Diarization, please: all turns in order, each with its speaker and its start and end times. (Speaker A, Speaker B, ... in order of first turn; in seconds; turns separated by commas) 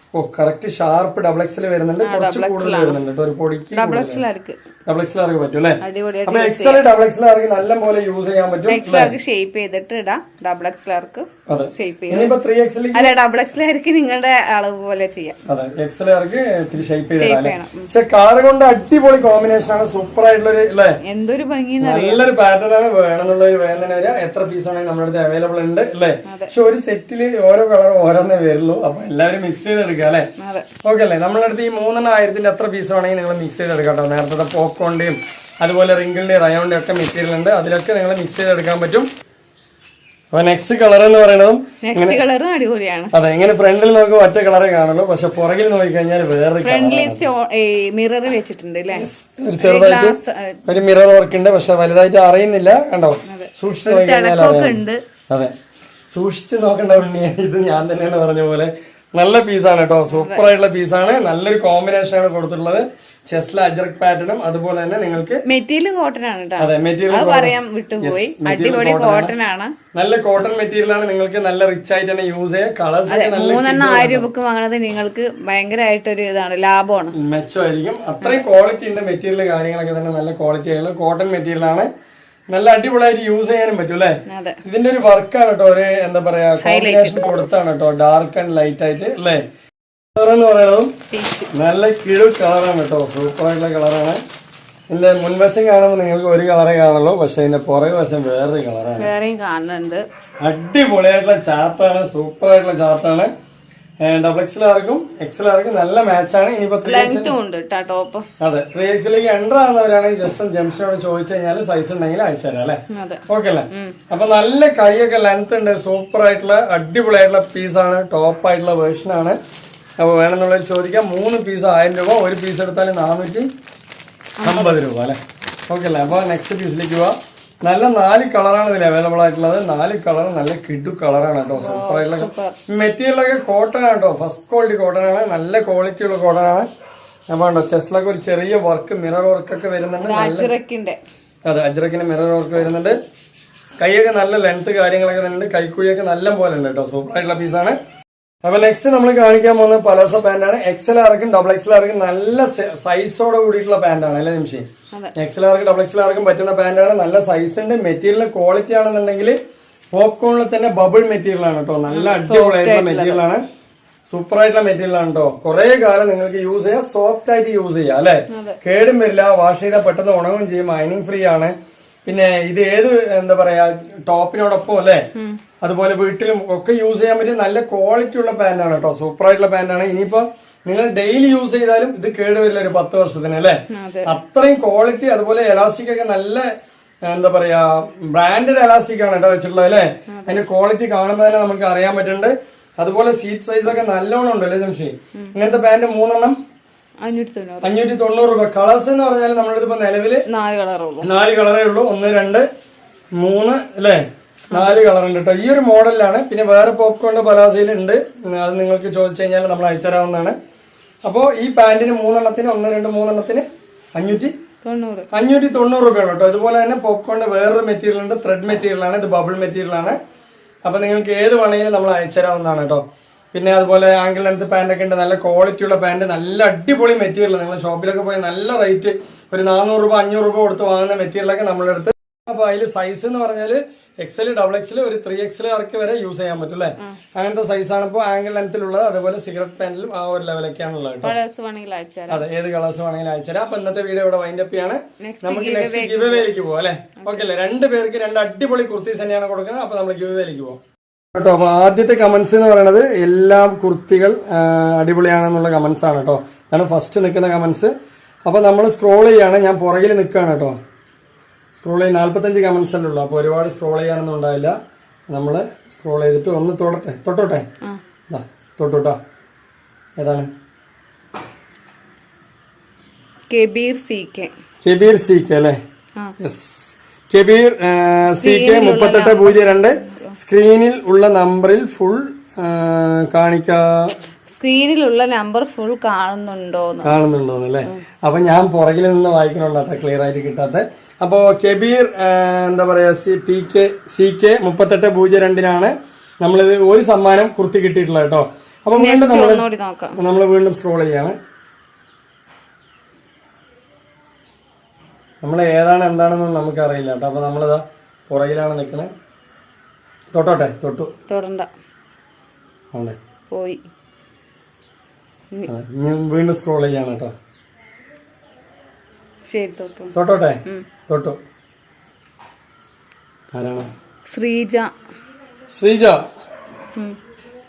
Speaker A: 0.1-4.2, Speaker B: 2.0-3.0, Speaker B: 3.7-4.6, Speaker A: 4.9-9.1, Speaker B: 5.8-6.9, Speaker B: 8.7-12.4, Speaker A: 11.5-13.1, Speaker B: 12.9-15.4, Speaker A: 15.5-21.0, Speaker B: 17.1-17.9, Speaker B: 21.1-22.2, Speaker A: 21.8-30.3, Speaker B: 26.3-26.5, Speaker B: 30.4-30.7, Speaker A: 30.8-39.1, Speaker A: 40.3-42.2, Speaker B: 41.8-43.1, Speaker A: 43.1-47.2, Speaker B: 46.6-49.1, Speaker A: 48.9-55.5, Speaker B: 49.6-50.6, Speaker B: 53.2-55.0, Speaker A: 56.1-65.4, Speaker B: 60.1-60.5, Speaker B: 65.5-69.7, Speaker A: 66.6-69.3, Speaker A: 69.9-74.3, Speaker B: 73.1-77.2, Speaker A: 77.1-81.9, Speaker A: 82.5-89.4, Speaker B: 84.3-84.6, Speaker B: 86.6-87.3, Speaker A: 90.2-90.9, Speaker B: 91.1-91.5, Speaker A: 91.5-94.2, Speaker A: 94.9-99.1, Speaker B: 99.0-100.0, Speaker A: 100.4-103.3, Speaker A: 104.0-107.3, Speaker B: 106.8-108.3, Speaker A: 108.4-119.4, Speaker B: 112.9-114.0, Speaker A: 120.0-123.5, Speaker B: 124.4-124.8, Speaker A: 124.4-125.2, Speaker A: 125.7-136.7, Speaker B: 131.6-132.6, Speaker A: 137.3-140.5, Speaker B: 140.0-141.0, Speaker A: 141.4-143.0, Speaker A: 143.8-147.8, Speaker A: 148.4-154.7, Speaker A: 155.2-159.4, Speaker A: 159.9-163.4, Speaker B: 161.9-163.2, Speaker A: 164.1-171.5, Speaker B: 168.3-168.6, Speaker A: 172.1-175.1, Speaker A: 175.6-186.5, Speaker B: 183.7-184.1, Speaker A: 187.1-196.4, Speaker B: 190.1-190.4, Speaker B: 197.0-197.8, Speaker A: 197.6-200.2, Speaker B: 200.3-201.1, Speaker A: 201.0-202.5, Speaker A: 203.2-210.4, Speaker B: 204.5-204.8, Speaker A: 211.1-214.3, Speaker B: 214.6-215.1, Speaker A: 215.1-220.0, Speaker A: 220.7-241.2, Speaker B: 241.0-242.2, Speaker A: 242.1-250.6, Speaker B: 245.0-246.3, Speaker B: 247.0-247.3, Speaker A: 251.2-257.7, Speaker A: 258.2-260.6, Speaker A: 261.6-264.6, Speaker A: 265.1-267.5, Speaker A: 268.1-269.0, Speaker A: 270.0-270.3, Speaker B: 273.3-274.3, Speaker A: 274.6-275.6, Speaker A: 276.2-283.9, Speaker B: 278.1-280.1, Speaker B: 284.3-287.0, Speaker A: 286.8-299.4, Speaker B: 298.7-300.0, Speaker A: 300.0-301.2, Speaker A: 305.2-308.9, Speaker A: 310.1-310.9, Speaker B: 311.1-311.5, Speaker B: 313.3-313.6, Speaker A: 315.5-317.1, Speaker B: 319.3-319.9, Speaker A: 319.9-321.2, Speaker A: 323.3-323.7, Speaker B: 324.1-324.7, Speaker A: 325.5-326.0